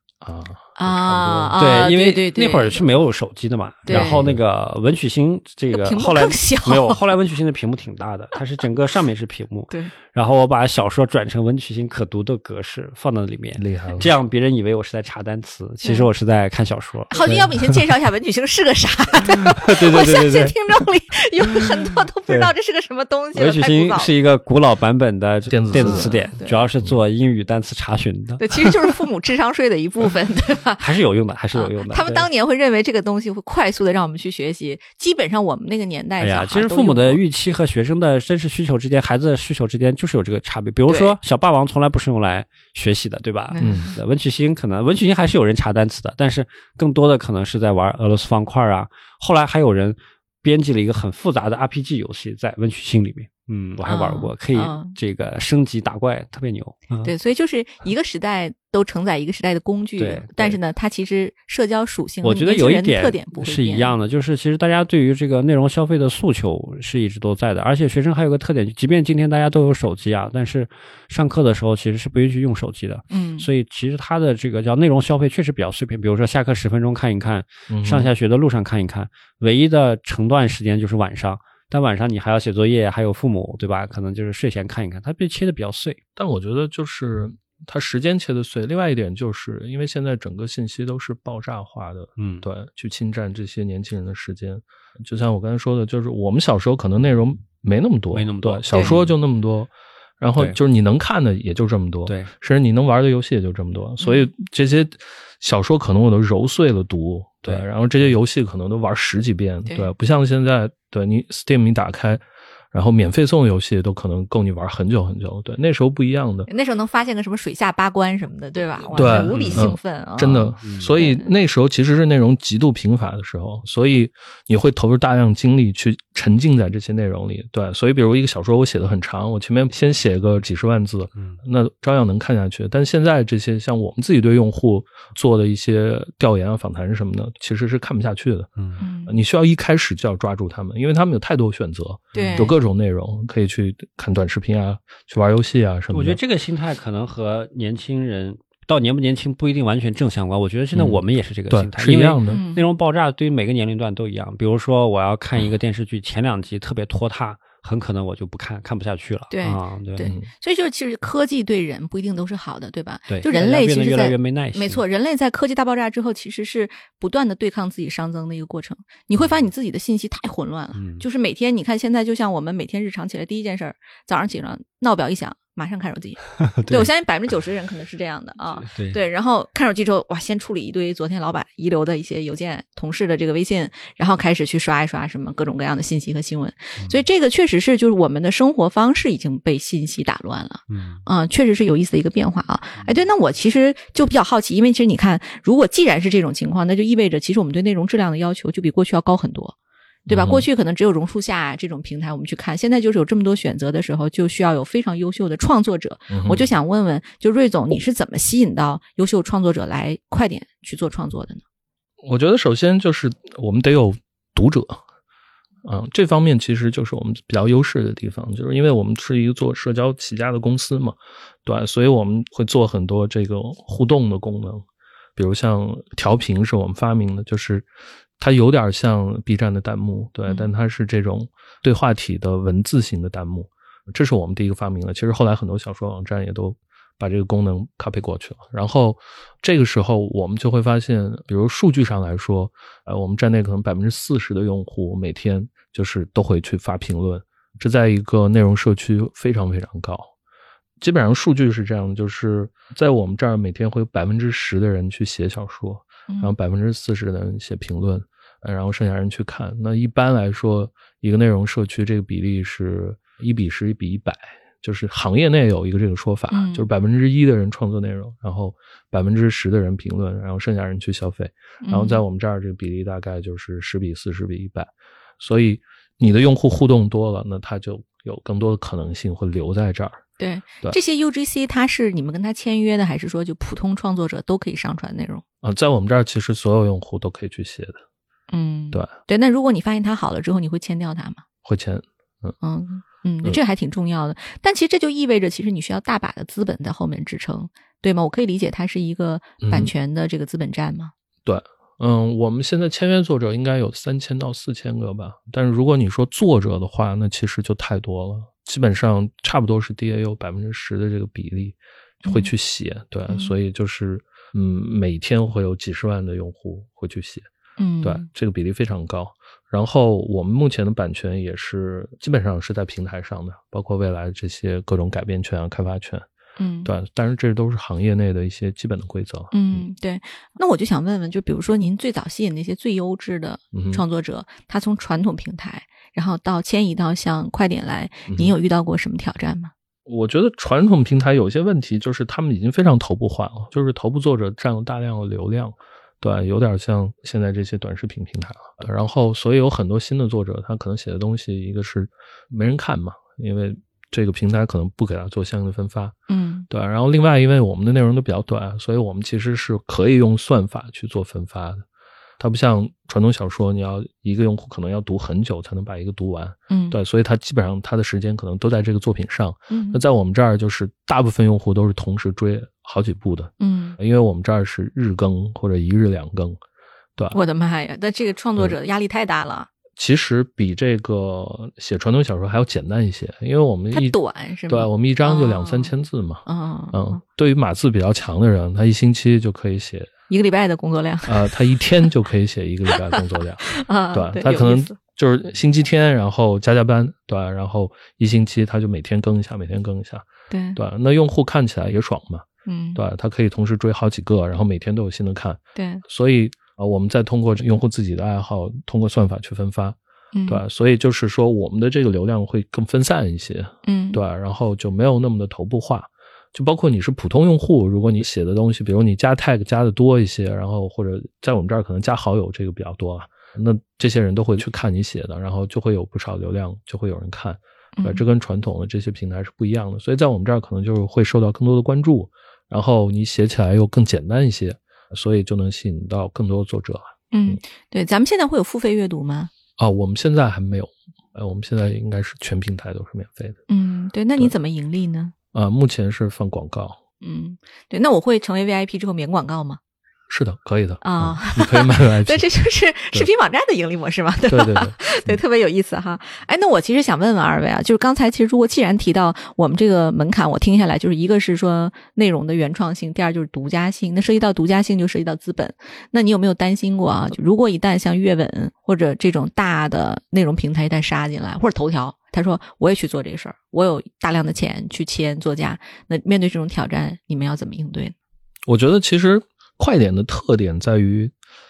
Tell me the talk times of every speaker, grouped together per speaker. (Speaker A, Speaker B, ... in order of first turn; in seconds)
Speaker A: 0.2-1.6, 3.9-4.4, 13.6-14.1, 25.5-26.2, 43.6-43.9, 77.7-78.1, 86.2-116.5, 118.9-138.5, 139.0-146.2, 150.7-152.4, 160.0-160.3, 200.1-200.4, 206.1-206.5, 212.0-214.8, 215.6-224.6, 225.2-227.7, 228.2-250.1, 250.8-280.0, 285.4-287.8, 291.4-292.4, 299.4-299.7, 301.2-317.3, 317.8-326.0, 326.6-329.6, 333.5-333.8, 338.1-338.3, 339.9-355.9, 356.5-361.6, 362.2-376.4, 379.8-389.9, 391.1-437.4, 439.6-443.4, 445.3-446.8, 450.1-452.2, 454.3-455.2, 478.5-481.1
Speaker B: 0.8-2.9, 3.9-4.3, 5.7-7.0, 15.8-16.1, 17.1-24.1, 25.7-26.6, 28.4-30.9, 31.5-37.2, 40.9-41.1, 43.5-43.9, 53.8-55.0, 57.0-63.9, 73.1-73.5, 104.0-104.3, 116.5-121.3, 138.8-139.2, 142.1-142.5, 152.3-152.7, 159.3-199.5, 200.1-211.4, 256.1-256.3, 266.3-266.7, 271.6-272.0, 280.2-285.2, 288.3-291.2, 292.4-300.9, 312.0-312.3, 317.6-318.1, 326.4-326.7, 329.3-339.5, 356.1-356.5, 366.5-366.8, 369.5-369.8, 373.4-373.8, 377.1-379.5, 383.7-385.7, 386.2-387.0, 390.1-391.8, 392.7-394.7, 400.3-400.6, 402.4-402.8, 405.6-405.8, 410.1-410.4, 413.6-414.0, 427.8-428.0, 437.1-439.3, 443.5-445.1, 447.0-449.6, 450.8-477.9
Speaker C: 1.6-17.8, 19.2-20.8, 21.5-22.5, 23.3-29.0, 30.8-32.3, 36.2-57.1, 60.0-60.6, 62.2-86.0, 92.2-92.5, 98.1-99.1, 102.0-102.3, 119.0-119.8, 120.6-120.9, 142.1-142.5, 145.9-160.1, 163.1-164.8, 170.8-171.0, 176.4-176.9, 178.4-179.0, 190.7-191.0